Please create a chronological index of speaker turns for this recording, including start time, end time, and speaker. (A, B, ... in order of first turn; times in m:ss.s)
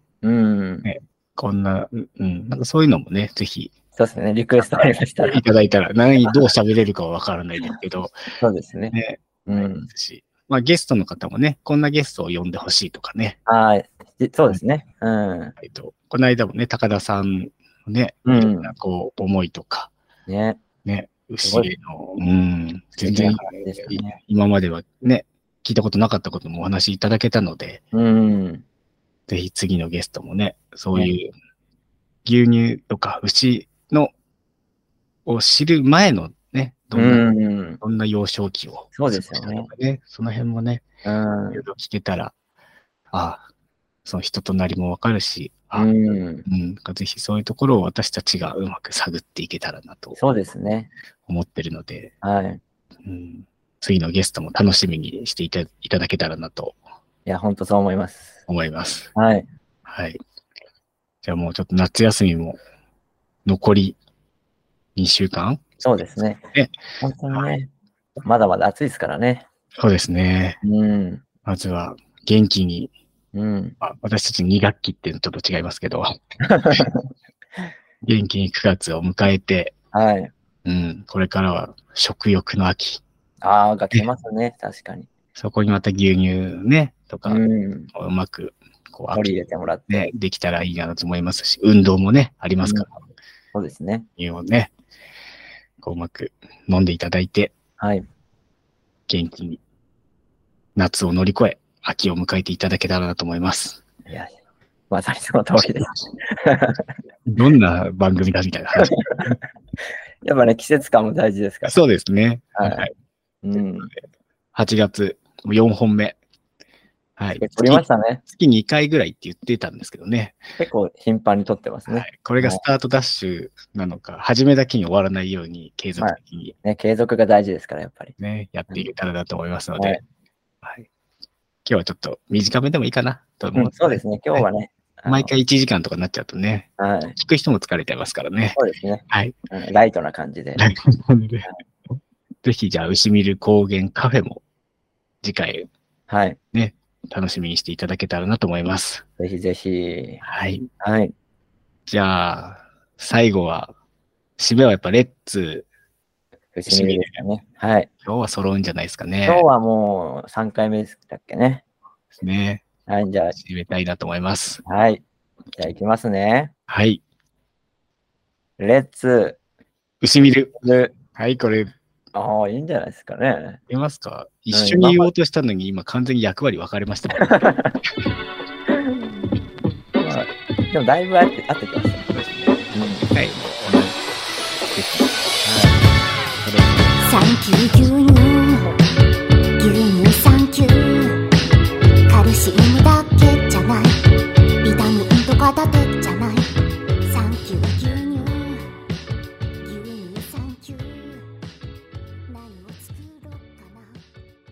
0:00.2-0:00.9 A
0:00.8-0:03.7 B
0:04.0-0:05.4 A
0:04.6-0:08.2 B
0:06.2-0:06.5 A
0:08.4-0:09.9 A
0:08.9-0:13.4 B
0:13.5-0:15.6 A
0:15.6-0:19.9 B
0:18.2-0:18.7 A
0:20.3-0:20.6 A
0:20.8-0:27.8 B
0:21.4-0:21.7 A
0:23.0-0:24.2 A
0:27.9-0:28.6 A
0:29.3-0:31.3 B
0:32.2-0:34.1 B
0:35.3-0:37.3 B
0:36.9-0:37.8 A
0:37.8-0:40.8 B
0:39.0-0:39.7 A
0:41.0-0:41.6 A
0:41.5-0:42.3 B
0:43.1-0:43.4 B
0:44.0-0:45.9 B
0:45.8-0:46.4 A
0:46.5-0:50.2 B
0:50.2-0:50.9 A
0:51.3-0:52.1 B
0:52.2-0:52.6 A
0:53.0-0:56.8 B
0:57.3-0:58.4 A
0:58.5-0:59.1 B
0:59.2-0:59.5 A
0:59.9-1:00.2 B
1:01.2-1:02.6 B
1:03.4-1:04.0 B
1:05.0-1:05.8 B
1:05.8-1:06.4 A
1:07.0-1:07.7 A
1:08.2-1:09.5 A
1:09.8-1:10.6 B
1:10.6-1:11.2 A
1:11.5-1:12.9 B
1:13.3-1:13.8 A
1:13.8-1:16.1 B
1:16.4-1:17.1 A
1:18.0-1:19.7 B
1:19.9-1:20.3 A
1:20.6-1:23.0 B
1:23.4-1:25.1 A
1:25.4-1:29.4 B
1:27.3-1:27.9 A
1:29.1-1:30.1 A
1:29.9-1:32.9 B
1:32.6-1:32.9 A
1:33.5-1:34.1 A
1:34.2-1:34.7 B
1:35.8-1:37.5 B
1:37.8-1:38.0 A
1:39.1-1:39.6 B
1:40.8-1:43.8 B
1:44.1-1:44.4 A
1:44.9-1:46.9 A
1:47.3-1:48.9 B
1:48.8-1:49.3 A
1:50.2-1:51.8 A
1:51.6-1:52.9 B
1:52.6-1:52.9 A
1:53.4-1:53.9 A
1:54.5-1:56.2 B
1:57.2-2:00.4 B
1:57.4-1:58.2 A
2:00.6-2:02.6 A
2:01.9-2:06.6 B
2:06.0-2:08.2 A
2:08.2-2:10.0 B
2:10.6-2:10.9 B
2:11.6-2:14.4 B
2:13.6-2:15.3 A
2:15.1-2:19.3 B
2:16.8-2:17.2 A
2:18.6-2:20.6 A
2:20.6-2:21.5 B
2:22.4-2:24.4 B
2:25.2-2:25.7 B
2:26.1-2:26.4 A
2:26.5-2:29.0 B
2:29.2-2:30.2 A
2:30.2-2:30.7 B
2:30.8-2:31.1 A
2:31.9-2:33.7 B
2:34.4-2:35.7 B
2:36.5-2:37.9 A
2:36.7-2:37.2 B
2:38.0-2:39.5 B
2:39.2-2:41.6 A
2:42.1-2:42.6 B
2:42.9-2:43.4 A
2:43.4-2:44.6 B
2:44.6-2:45.0 A
2:45.6-2:46.5 A
2:46.7-2:47.0 B
2:48.6-2:49.4 A
2:50.0-2:50.6 B
2:50.6-2:50.9 A
2:51.1-2:51.7 B
2:52.1-2:53.6 A
2:53.7-2:57.3 B
2:54.5-2:55.1 A
2:57.2-2:57.8 A
3:00.0-3:02.1 A
3:02.1-3:04.0 B
3:02.7-3:03.1 A
3:04.7-3:05.2 B
3:05.4-3:05.8 A
3:06.4-3:07.0 B
3:07.0-3:08.7 C
3:09.6-3:11.2 C
3:12.1-3:14.0 C
3:14.6-3:16.5 C
3:17.0-3:18.6 C
3:19.6-3:21.3 C
3:22.3-3:24.0 C